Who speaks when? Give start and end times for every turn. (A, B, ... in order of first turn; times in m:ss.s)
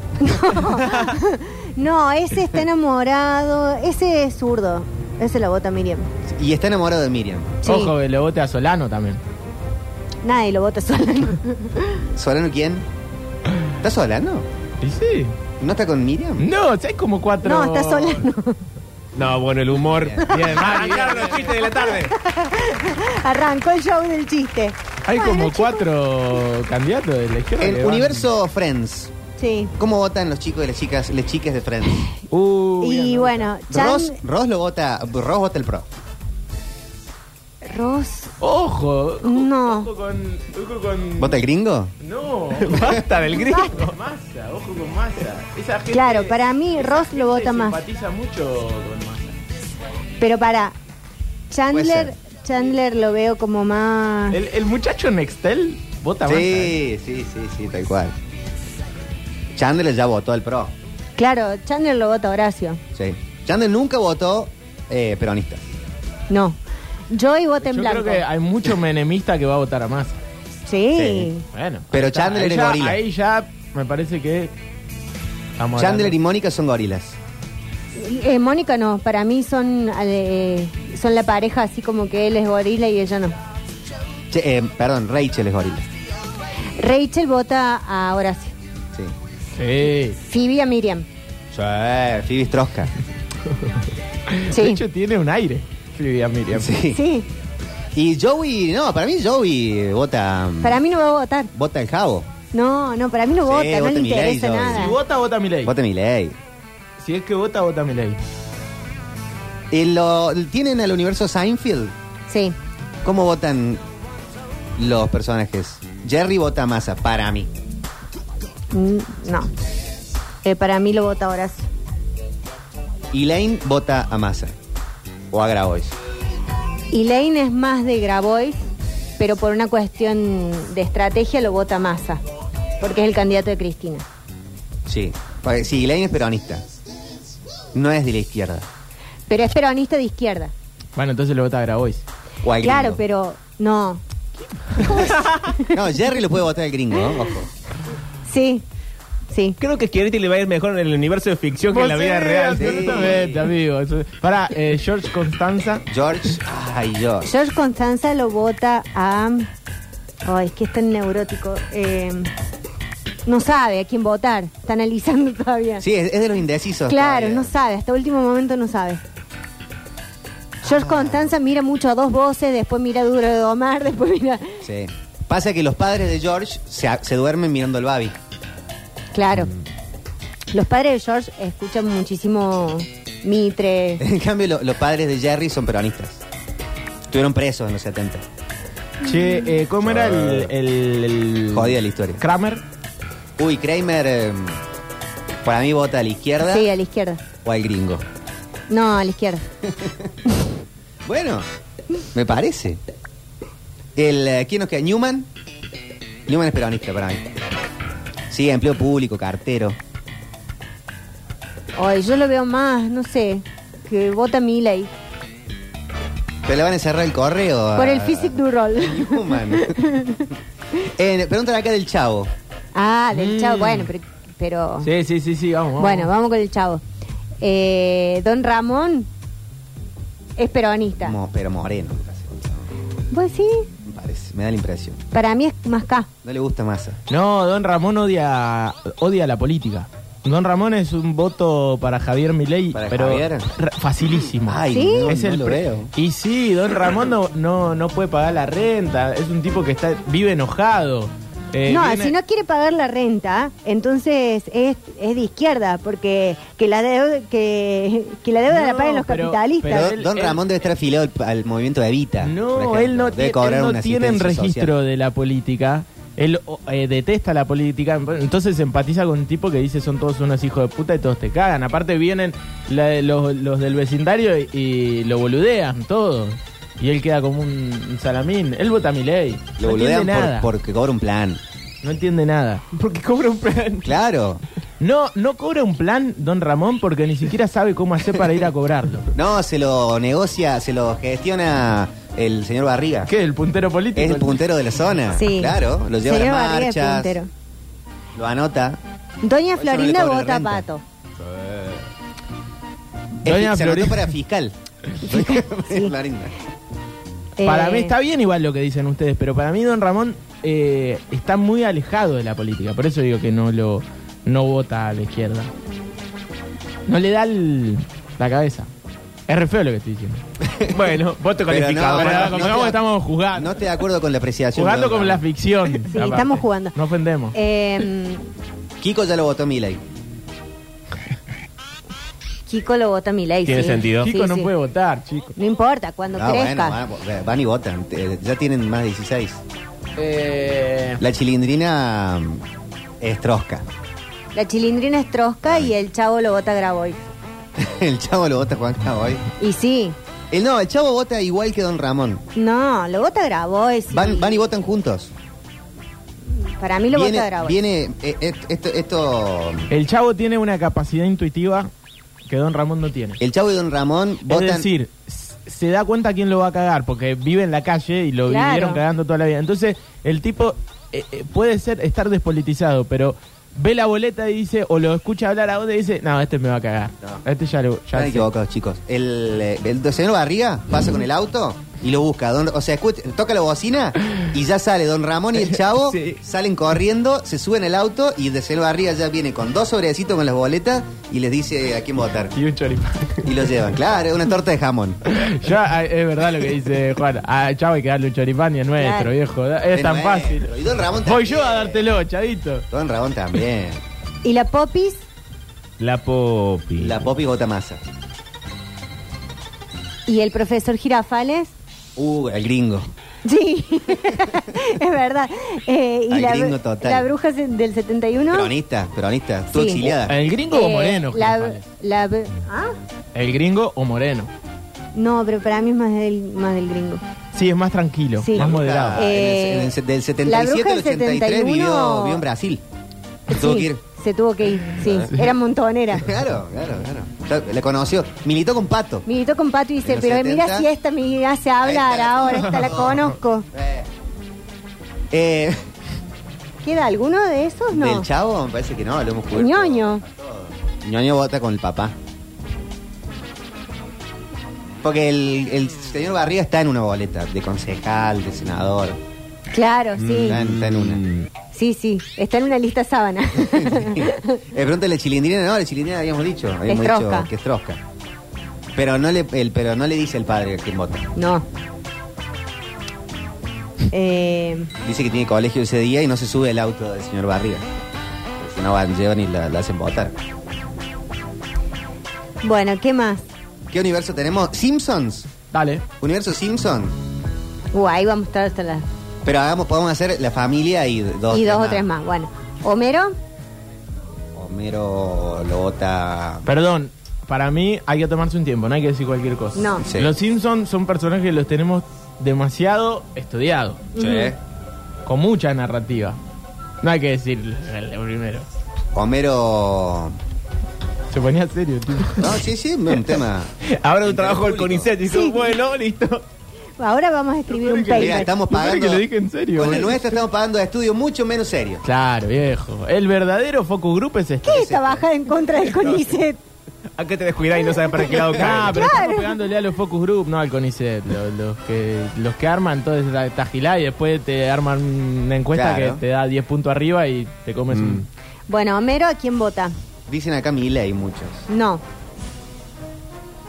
0:00.2-0:06.1 A
0:06.3-0:07.6 B
0:07.6-0:08.0 A
0:07.6-0:09.2 C
0:10.2-0:12.0 A
0:12.1-0:12.9 B
0:13.8-0:14.5 B
0:14.8-0:15.4 C
0:15.6-0:16.5 B
0:16.4-0:18.3 C
0:17.4-0:18.6 A
0:19.2-0:22.1 D
0:20.0-0:20.4 B
0:20.3-0:21.6 C
0:21.5-0:25.9 A
0:25.0-0:28.3 C
0:27.6-0:29.1 B
0:29.4-0:29.7 A
0:29.8-0:32.1 B
0:32.3-0:33.5 C
0:32.8-0:34.2 A
0:33.7-0:35.9 B
0:37.6-0:38.3 A
0:38.4-0:41.4 C
0:39.2-0:39.9 A
0:41.2-0:41.9 B
0:42.0-0:43.0 C
0:42.6-0:43.9 D
0:43.3-0:43.8 A
0:43.7-0:49.4 C
0:45.9-0:47.8 A
0:50.2-0:50.8 A
0:51.5-0:54.4 A
0:51.7-0:52.1 B
0:54.3-0:56.8 C
0:56.2-0:58.1 B
0:59.6-1:00.7 B
1:01.2-1:02.8 A
1:02.9-1:05.7 B
1:06.3-1:06.6 A
1:07.1-1:08.2 A
1:07.6-1:10.2 C
1:10.7-1:11.4 A
1:10.9-1:11.3 B
1:11.5-1:14.5 C
1:11.9-1:13.0 B
1:15.6-1:16.2 C
1:15.8-1:17.2 B
1:18.0-1:23.4 A
1:24.3-1:25.9 B
1:26.8-1:28.6 A
1:29.6-1:30.2 C
1:30.2-1:31.1 A
1:31.5-1:32.9 B
1:34.3-1:36.8 C
1:34.5-1:34.8 A
1:36.5-1:37.0 B
1:36.9-1:37.3 A
1:38.0-1:40.8 B
1:40.6-1:41.5 A
1:41.5-1:42.3 B
1:42.5-1:45.0 A
1:43.4-1:45.0 B
1:44.7-1:45.7 C
1:45.6-1:46.4 B
1:47.0-1:48.2 C
1:49.7-1:51.9 B
1:52.3-1:52.6 A
1:53.0-1:53.8 B
1:54.8-1:57.5 B
1:58.7-1:59.5 A
2:00.4-2:01.7 A
2:03.1-2:04.5 B
2:05.3-2:06.0 B
2:06.9-2:08.6 A
2:09.2-2:12.2 A
2:12.8-2:14.1 A
2:14.9-2:16.6 B
2:17.7-2:18.7 B
2:19.3-2:20.5 A
2:21.0-2:22.0 C
2:22.4-2:23.0 B
2:22.6-2:24.0 A
2:24.7-2:25.0 C
2:24.8-2:25.8 A
2:25.7-2:27.5 B
2:28.3-2:28.6 A
2:29.3-2:29.6 A
2:29.6-2:33.3 D
2:31.7-2:35.8 C
2:32.5-2:33.5 B
2:35.9-2:37.3 B
2:37.2-2:39.5 A
2:40.2-2:42.3 A
2:43.3-2:45.8 A
2:45.8-2:47.5 B
2:46.9-2:49.0 A
2:50.6-2:51.3 B
2:50.6-2:54.6 A
2:54.6-2:58.2 B
2:59.1-2:59.5 A
3:00.5-3:04.0 A
3:04.0-3:06.2 B
3:07.1-3:08.2 B
3:09.0-3:12.6 C
3:09.8-3:10.5 B
3:11.5-3:12.2 B
3:13.4-3:14.6 B
3:15.4-3:16.7 B
3:16.4-3:17.2 A
3:17.4-3:18.0 B
3:18.7-3:19.5 A
3:19.7-3:20.1 B
3:21.0-3:21.4 B
3:22.1-3:22.8 B
3:24.0-3:25.3 B
3:26.3-3:27.3 B
3:28.3-3:29.8 B
3:31.8-3:34.9 A
3:36.5-3:39.8 B
3:37.8-3:40.3 A
3:41.0-3:42.3 B
3:42.7-3:44.9 A
3:43.1-3:43.9 C
3:44.8-3:46.1 C
3:45.8-3:46.8 A
3:47.4-3:49.1 A
3:50.4-3:51.2 A
3:51.0-3:52.6 B
3:53.1-3:53.7 A
3:53.9-3:55.0 B
3:55.1-3:56.1 A
3:56.2-3:57.0 B
3:57.1-4:12.2 C
4:02.7-4:03.5 B
4:04.4-4:05.9 B
4:04.7-4:05.1 A
4:11.7-4:19.9 A
4:18.5-4:20.4 C
4:19.7-4:24.7 B
4:22.2-4:40.5 C
4:39.6-4:41.4 B
4:41.8-4:42.6 C
4:42.7-4:43.9 D
4:43.8-4:44.4 B
4:44.8-4:49.1 C
4:49.1-4:53.1 B
4:53.1-4:54.4 C
4:54.0-4:57.2 B
4:55.1-4:57.3 A
4:58.2-4:58.8 B
4:59.2-5:00.8 A
4:59.5-5:00.6 B
5:01.2-5:01.8 B
5:03.2-5:06.3 B
5:03.2-5:04.1 C
5:05.0-5:05.9 A
5:07.4-5:07.9 A
5:07.4-5:15.5 C
5:16.9-5:18.7 C
5:19.3-5:20.2 C
5:20.4-5:20.8 B
5:20.7-5:22.6 D
5:21.5-5:22.8 B
5:21.8-5:23.6 C
5:23.3-5:25.2 B
5:24.6-5:27.4 C
5:25.9-5:26.8 A
5:27.3-5:28.3 A
5:28.8-5:29.8 B
5:32.5-5:34.5 A
5:33.5-5:34.1 D
5:34.0-5:35.4 C
5:35.4-5:36.8 A
5:36.1-5:39.4 B
5:40.0-5:41.0 C
5:41.0-5:42.4 B
5:43.0-5:43.7 B
5:44.3-5:47.0 A
5:45.4-5:45.7 B
5:47.6-5:49.2 B
5:49.4-5:50.0 A
5:50.3-5:52.2 B
5:52.4-5:54.4 A
5:53.9-5:55.1 B
5:56.5-5:57.6 A
5:56.9-5:59.7 B
5:59.7-6:01.7 C
6:02.3-6:03.2 C
6:03.2-6:04.7 B
6:04.3-6:18.3 C
6:08.3-6:08.8 A
6:17.9-6:32.3 B
6:25.9-6:26.2 D
6:32.3-6:33.3 C
6:33.2-6:35.0 B
6:35.1-6:40.5 C
6:38.8-6:39.1 A
6:39.7-6:41.9 B
6:41.0-6:42.7 C
6:42.7-6:43.8 B
6:44.2-6:45.0 A
6:45.8-6:47.0 D
6:46.8-6:47.8 B
6:50.1-6:51.5 A
6:52.0-6:52.9 B
6:53.2-6:58.5 A
6:56.1-6:57.1 B
6:58.3-7:00.2 B
6:59.5-6:59.9 A
7:00.0-7:01.6 C
7:00.5-7:02.8 A
7:03.2-7:04.3 C
7:05.0-7:07.0 A
7:07.3-7:09.0 C
7:08.2-7:09.7 A
7:08.3-7:12.6 B
7:10.2-7:12.2 A
7:13.3-7:13.8 B
7:13.3-7:16.1 A
7:14.8-7:15.1 B
7:16.0-7:19.1 B
7:19.1-7:23.5 A
7:19.8-7:20.7 B
7:21.6-7:23.9 B
7:25.1-7:25.6 B
7:26.6-7:28.1 A
7:27.7-7:32.0 B
7:29.3-7:30.0 A
7:34.8-7:39.0 B
7:39.5-7:40.4 A
7:40.0-7:41.3 D
7:40.1-7:41.0 B
7:41.5-7:44.4 A
7:43.5-7:47.8 B
7:46.7-7:47.3 A
7:48.8-7:51.1 B
7:51.2-7:51.4 A
7:53.9-7:54.7 A
7:54.8-7:57.7 B
7:58.4-8:00.2 B
8:02.4-8:03.2 A
8:03.7-8:05.3 B
8:05.5-8:05.8 C
8:06.0-8:07.0 B
8:07.7-8:08.8 A
8:09.2-8:11.9 B
8:11.3-8:13.2 A
8:14.4-8:16.5 B
8:16.5-8:23.9 C
8:19.6-8:19.9 A
8:19.8-8:20.1 B
8:24.0-8:24.3 A
8:24.0-8:24.4 B
8:25.1-8:26.2 C
8:26.8-8:28.5 C
8:28.9-8:30.2 B
8:31.1-8:32.4 C
8:32.2-8:34.9 B
8:33.6-8:36.2 D
8:35.1-8:35.5 A
8:36.8-8:38.3 A
8:37.6-8:40.2 C
8:37.9-8:41.8 B
8:41.8-8:44.8 C
8:44.4-8:46.4 A
8:44.6-8:45.0 B
8:45.7-8:46.0 D
8:47.0-8:49.0 D
8:48.4-8:58.1 C
8:48.5-8:49.4 A
8:55.5-8:56.0 B
8:58.5-8:59.8 A
9:00.1-9:01.5 B
9:01.5-9:01.8 A